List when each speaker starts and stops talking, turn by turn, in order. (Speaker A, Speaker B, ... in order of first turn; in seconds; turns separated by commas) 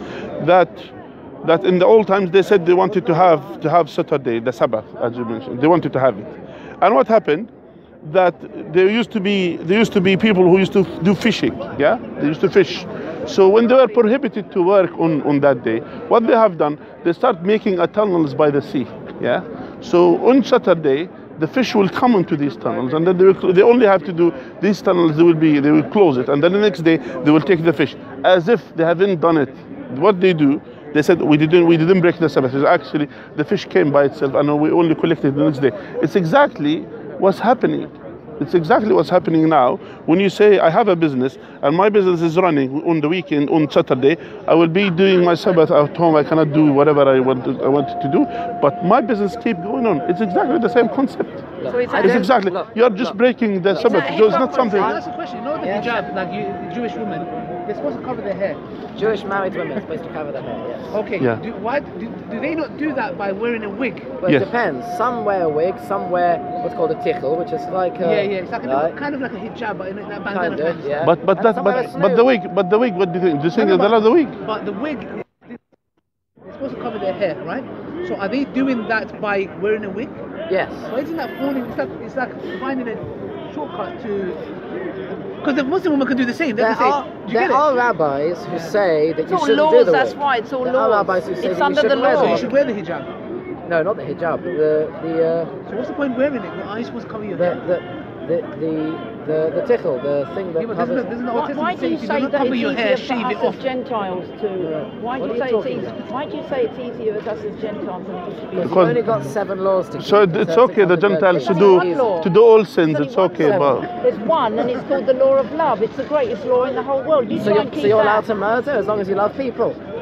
Speaker A: 0.4-7.5, Speaker A: 8.0-55.0, Speaker B: 51.6-53.2, Speaker C: 51.7-52.3, Speaker B: 53.7-54.2, Speaker C: 53.8-55.0, Speaker D: 54.7-58.6, Speaker B: 55.6-56.0, Speaker B: 59.0-61.0, Speaker D: 60.9-64.1, Speaker B: 64.2-69.0, Speaker A: 64.3-64.5, Speaker D: 68.0-71.1, Speaker B: 70.3-72.3, Speaker A: 71.0-74.4, Speaker D: 73.5-75.6, Speaker D: 76.5-80.2, Speaker B: 80.5-80.9, Speaker D: 80.9-84.4, Speaker D: 85.4-87.7, Speaker B: 86.6-92.5, Speaker C: 89.3-92.5, Speaker D: 92.1-93.1, Speaker B: 93.7-95.5, Speaker D: 95.7-97.6, Speaker B: 97.3-101.2, Speaker D: 100.6-103.6, Speaker C: 101.3-108.8, Speaker B: 105.2-106.0, Speaker B: 108.6-112.2, Speaker A: 108.6-109.0, Speaker A: 110.0-113.9, Speaker C: 111.3-112.3, Speaker C: 112.9-118.3, Speaker B: 113.4-113.8, Speaker B: 117.3-119.8